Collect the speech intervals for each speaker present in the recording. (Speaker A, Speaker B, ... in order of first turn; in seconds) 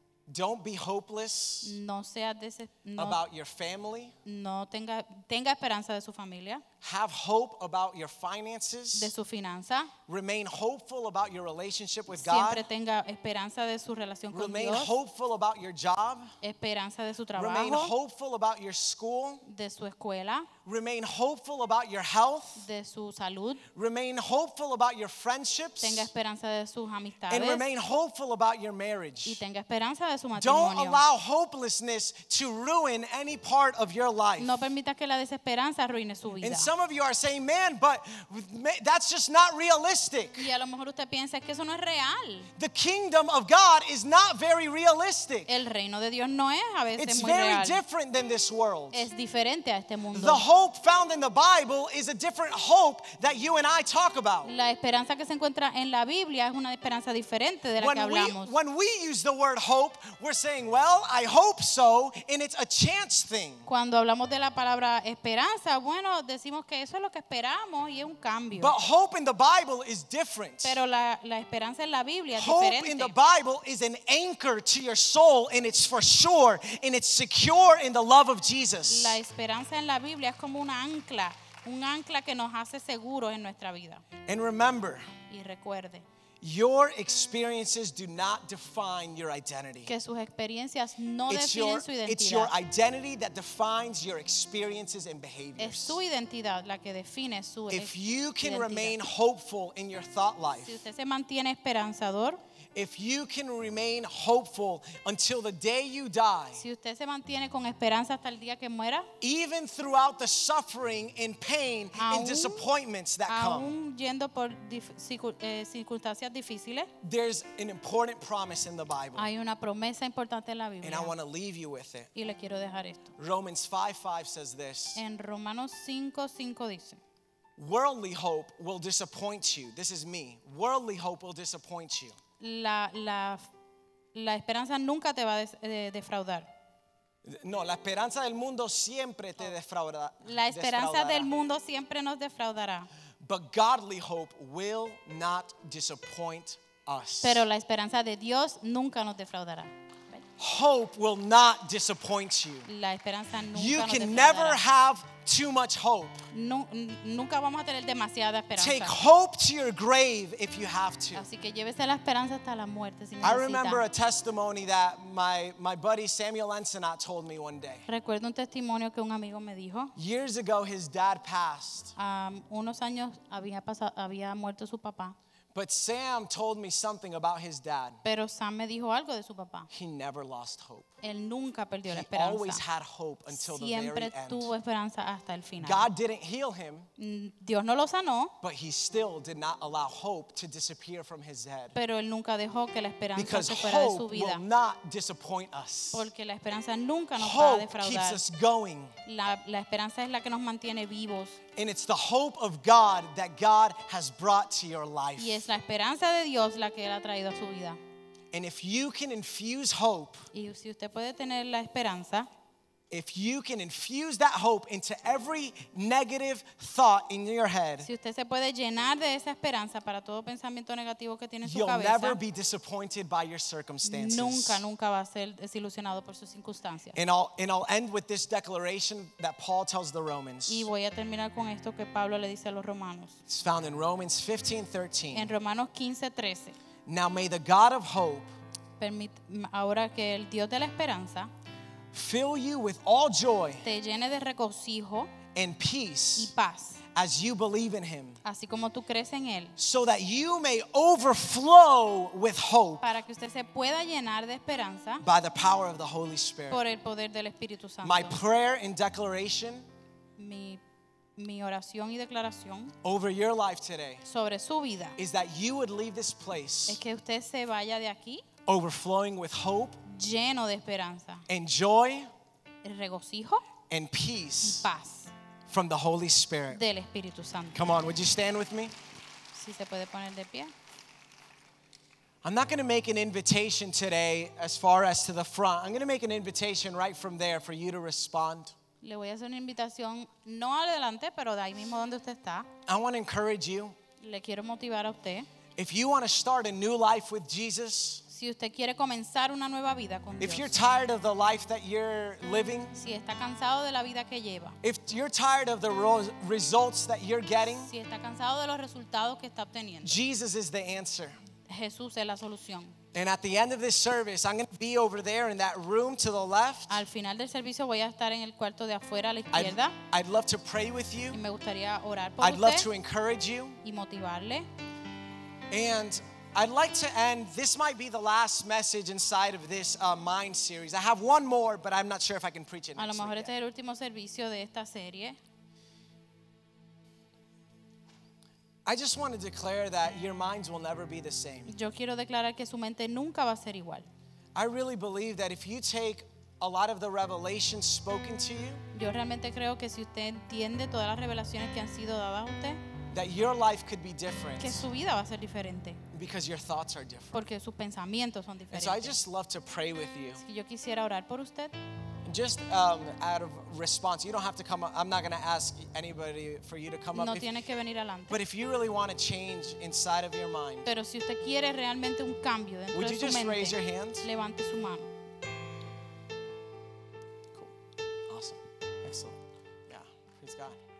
Speaker A: 0.3-1.7, 3.0-4.1, 6.8-9.1, 10.1-12.7, 14.3-16.3, 17.4-19.4, 20.6-22.6, 23.7-26.1, 27.3-29.4, 30.3-34.5, 36.4-40.5, 42.6-45.5, 47.0-49.1, 50.1-54.5, 57.8-63.7, 68.6-70.8, 72.3-79.2, 84.2-85.0, 86.4-89.9, 91.3-96.0, 97.7-100.8, 102.7-106.6, 109.2-113.7, 117.0-119.3, 120.8-122.1, 123.2-125.0, 127.6-132.2, 137.2-141.3, 143.2-147.4, 150.4-152.7, 153.5-156.2, 158.6-161.2, 163.2-167.8, 169.9-171.9, 175.5-178.0, 179.7-180.9, 181.9-184.5, 185.6-186.9, 188.4-191.7, 193.2-196.1, 197.2-198.9, 201.6-205.4, 208.3-210.2, 212.9-217.9, 221.4-224.6, 226.9-230.7, 233.3-235.3, 236.8-238.3, 241.9-243.7, 245.3-246.3, 246.9-248.2, 249.6-252.8, 255.0-256.6, 257.8-259.6, 262.8-264.0, 265.0-266.8, 268.5-269.8, 271.3-272.1, 273.7-274.7, 275.5-276.6, 277.5-278.7, 282.2-288.5, 292.7-293.8, 295.6-298.0, 300.2-302.8, 304.6-307.7, 309.8-311.2, 312.9-316.8, 319.3-321.2, 322.2-323.6, 325.5-333.3, 338.6-341.5, 344.3-348.6, 352.9-354.6, 355.9-357.2, 358.5-360.2, 362.0-367.3, 368.1-370.7, 372.7-374.1, 378.1-380.6
Speaker B: 1.6-3.2, 4.2-6.6, 8.9-9.9, 12.1-14.9, 16.4-17.9, 19.4-20.5, 22.6-23.6, 25.8-27.7, 29.2-31.0, 34.4-36.7, 40.4-42.5, 45.5-47.8, 48.9-50.4, 54.4-58.5, 63.6-68.7, 70.6-73.1, 78.8-84.0, 85.3-86.0, 89.8-92.5, 95.6-99.0, 100.6-102.4, 106.5-109.1, 112.0-112.6, 113.3-116.9, 119.1-121.1, 122.1-123.1, 124.9-127.0, 132.4-133.5, 134.1-136.5, 140.2-142.9, 147.2-149.7, 152.7-154.6, 156.3-158.9, 161.1-163.8, 167.9-169.9, 171.9-175.2, 178.0-179.7, 181.0-182.6, 183.3-185.9, 187.0-188.3, 191.7-194.4, 195.9-198.2, 199.0-201.4, 205.2-207.8, 210.3-212.3, 217.8-222.2, 223.8-227.0, 230.5-233.2, 235.1-236.6, 238.8-241.3, 243.6-245.1, 246.2-246.8, 248.2-249.6, 252.8-255.0, 256.5-258.2, 260.2-260.6, 261.2-262.7, 264.0-265.0, 266.7-268.2, 269.8-271.2, 272.6-273.4, 274.4-275.1, 276.5-277.6, 279.3-280.5, 288.8-292.5, 294.0-295.3, 298.1-300.6, 302.8-304.6, 307.4-310.0, 311.5-312.8, 316.7-319.8, 321.1-322.7, 323.6-324.5, 332.8-335.2, 341.5-343.9, 348.7-352.6, 354.4-355.8, 357.1-359.0, 360.2-361.6, 366.9-368.2, 370.6-374.9